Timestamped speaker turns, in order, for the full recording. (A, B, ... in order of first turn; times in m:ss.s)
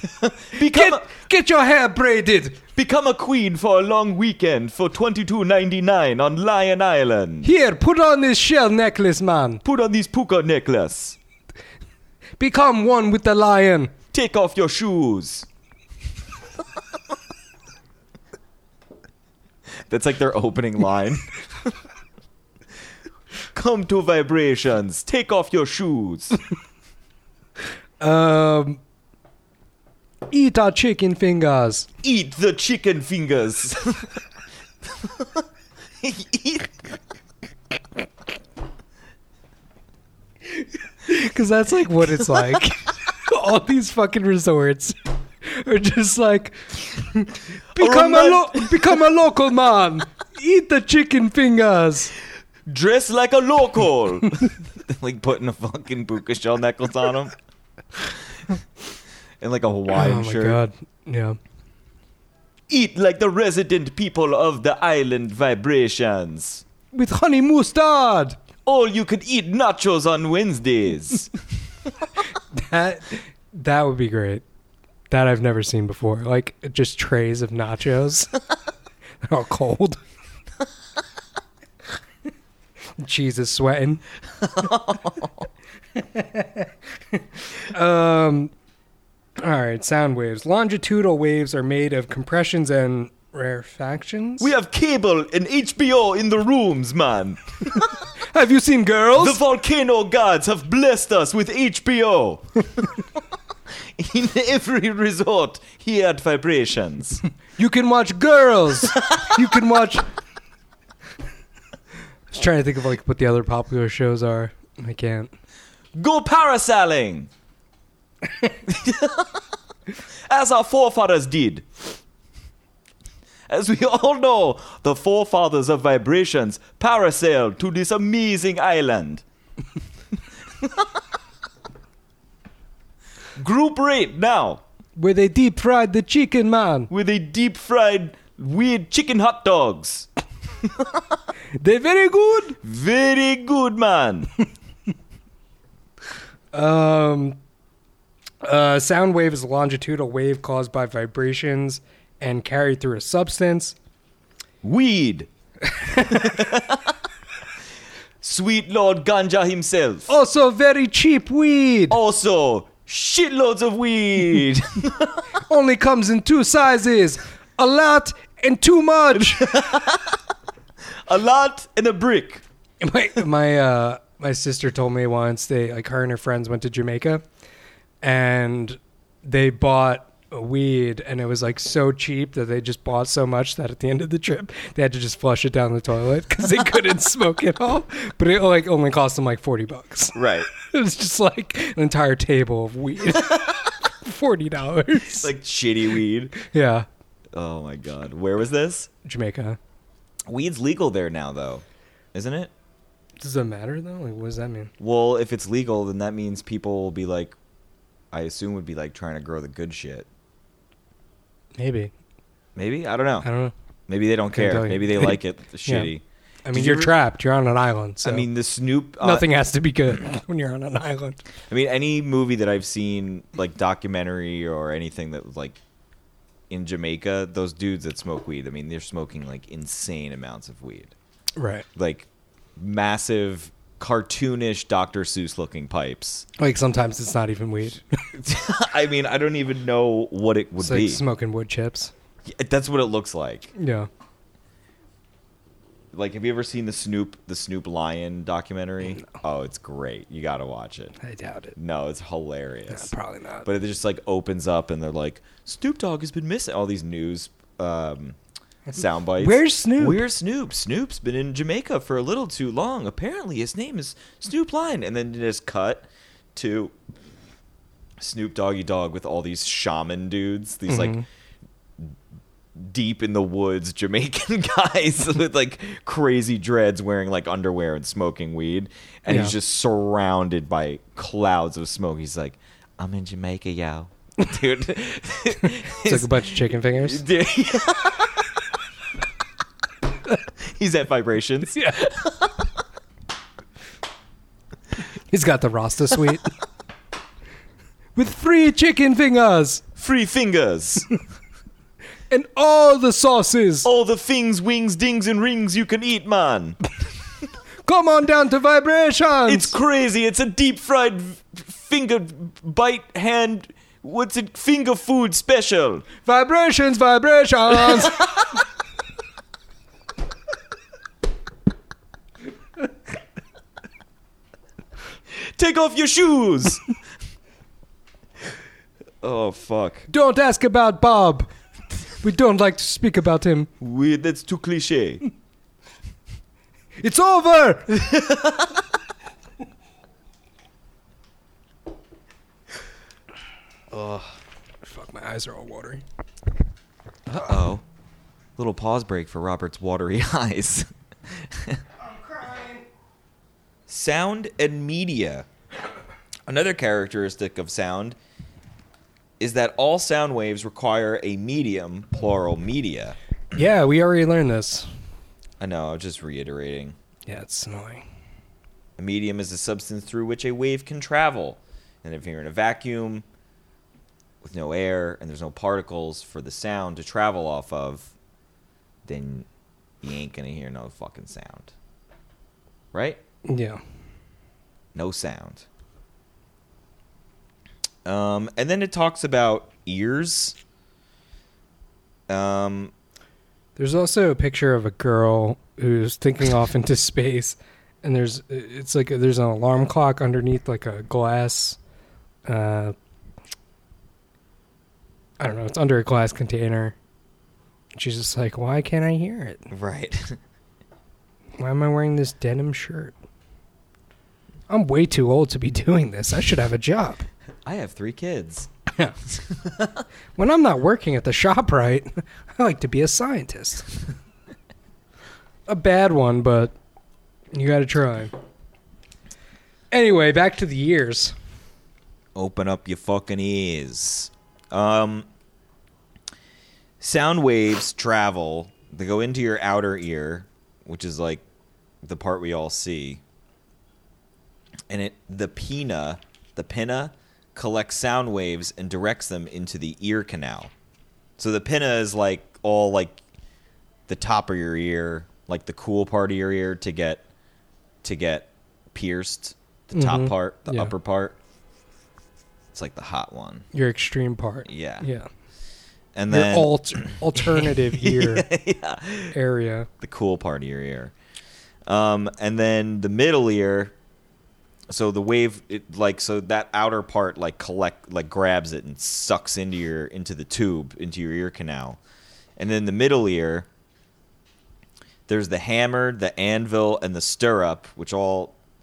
0:00.2-0:01.1 A
0:00.6-0:02.6 B
0:02.8-0:07.5 A
0:07.4-0:09.6 B
0:09.6-0:11.2 A
0:12.4-0:13.9 B
0:14.1-0:15.5 A
0:19.9-0:21.7 A
0:23.5-0:26.4 A
0:28.0-0:28.8 B
0:30.3-0:31.9 B
0:32.0-0:34.2 A
0:34.8-0:35.4 A
0:36.0-0:37.0 A
0:41.0-0:52.1 B
0:47.8-0:49.1 A
0:52.7-0:57.4 A
0:58.0-0:58.5 A
0:59.4-1:00.6 A
0:59.9-1:01.4 B
1:02.7-1:06.6 A
1:06.9-1:08.4 B
1:08.6-1:11.3 A
1:12.3-1:14.4 B
1:15.1-1:18.3 B
1:19.2-1:20.0 B
1:23.0-1:24.0 B
1:24.4-1:25.5 A
1:26.0-1:28.5 B
1:29.4-1:34.5 B
1:34.4-1:38.0 A
1:38.2-1:39.4 B
1:39.2-1:43.1 A
1:43.8-1:47.2 A
1:47.6-1:50.0 B
1:48.9-1:49.4 A
1:52.3-1:55.3 B
1:56.0-1:57.3 A
1:58.6-1:59.4 A
2:00.3-2:01.7 A
2:03.5-2:09.2 A
2:10.6-2:10.9 A
2:13.4-2:14.6 A
2:15.0-2:16.9 B
2:16.9-2:20.1 A
2:20.6-2:21.2 A
2:21.6-2:22.6 B
2:22.6-2:24.3 A
2:26.5-2:27.4 B
2:28.4-2:33.8 B
2:34.6-2:35.3 A
2:35.7-2:36.2 B
2:35.9-2:37.0 A
2:38.2-2:40.1 A
2:40.1-2:42.0 B
2:41.9-2:45.3 A
2:45.4-2:49.6 B
2:49.2-2:50.2 A
2:51.0-2:52.4 A
2:52.8-2:57.2 B
2:58.0-3:15.3 B
3:10.1-3:10.5 A
3:15.0-3:16.4 A
3:16.4-3:16.9 B
3:17.3-3:18.9 A
3:19.0-3:19.6 B
3:20.3-3:22.5 A
3:23.2-3:24.7 B
3:24.8-3:27.4 A
3:28.1-3:30.1 A
3:31.6-3:31.9 B
3:32.6-3:33.3 A
3:33.2-3:33.5 B
3:33.9-3:36.9 A
3:34.3-3:35.9 B
3:36.5-3:38.3 B
3:38.0-3:39.3 A
3:39.0-3:41.2 B
3:41.5-3:45.6 A
3:46.5-3:51.0 A
3:51.4-3:51.7 B
3:51.8-3:56.3 A
3:56.4-3:58.0 B
3:58.1-4:01.0 A
4:00.6-4:01.9 B
4:02.2-4:03.5 A
4:03.6-4:03.9 B
4:05.9-4:10.9 A
4:11.0-4:11.6 B
4:11.6-4:12.9 A
4:12.7-4:13.5 B
4:13.4-4:18.2 A
4:18.7-4:26.7 A
4:19.2-4:20.0 B
4:28.0-4:31.0 A
4:30.7-4:31.0 B
4:32.6-4:48.3 A
4:39.1-4:39.4 B
4:45.5-4:47.0 B
4:50.4-4:52.5 A
4:51.5-4:51.9 B
4:55.1-4:56.3 B
4:58.0-4:59.6 B
4:59.8-5:00.9 A
5:02.1-5:03.7 B
5:03.6-5:06.6 A
5:07.6-5:09.5 B
5:09.3-5:15.9 A
5:16.1-5:18.1 B
5:17.7-5:18.3 A
5:25.1-5:26.7 A
5:29.0-5:29.9 A
5:29.9-5:31.3 B
5:32.0-5:33.5 B
5:33.6-5:35.0 A
5:36.8-5:38.2 B
5:37.8-5:38.6 A
5:43.7-5:44.2 A
5:44.7-5:45.8 B
5:47.1-5:47.6 A
5:48.4-5:51.6 A
5:51.9-5:52.6 B
5:53.7-5:55.3 A
5:56.3-5:58.0 A
5:59.2-6:03.0 A
6:03.3-6:04.7 B
6:05.4-6:06.8 A
6:07.1-6:07.8 B
6:08.8-6:13.1 A
6:14.2-6:17.9 A
6:18.8-6:19.3 A
6:19.8-6:21.5 A
6:22.7-6:23.0 A
6:23.3-6:23.6 B
6:24.8-6:25.5 A
6:27.8-6:30.4 A
6:32.1-6:32.7 A
6:33.6-6:41.6 B
6:42.3-6:42.8 B
6:45.2-6:46.8 B
6:47.8-6:49.5 B
6:49.5-6:50.2 A
6:51.4-6:52.9 B
6:54.5-6:57.1 B
6:57.4-6:58.5 A
6:59.1-6:59.8 A
7:00.2-7:03.7 B
7:05.5-7:06.5 B
7:07.3-7:08.1 B
7:09.7-7:11.2 B
7:12.2-7:15.1 A
7:16.8-7:21.2 A
7:21.8-7:23.0 A
7:24.7-7:30.5 A
7:31.2-7:33.0 A
7:33.9-7:37.0 A
7:37.8-7:41.2 A
7:39.8-7:40.7 B
7:42.5-7:43.5 A
7:43.5-7:45.1 B
7:44.5-7:44.9 A
7:46.0-7:49.2 A
7:46.1-7:48.3 B
7:49.1-7:49.7 B
7:49.8-7:50.9 A
7:51.7-7:53.7 A
7:54.7-8:01.8 A
8:02.4-8:03.5 A
8:05.1-8:08.4 A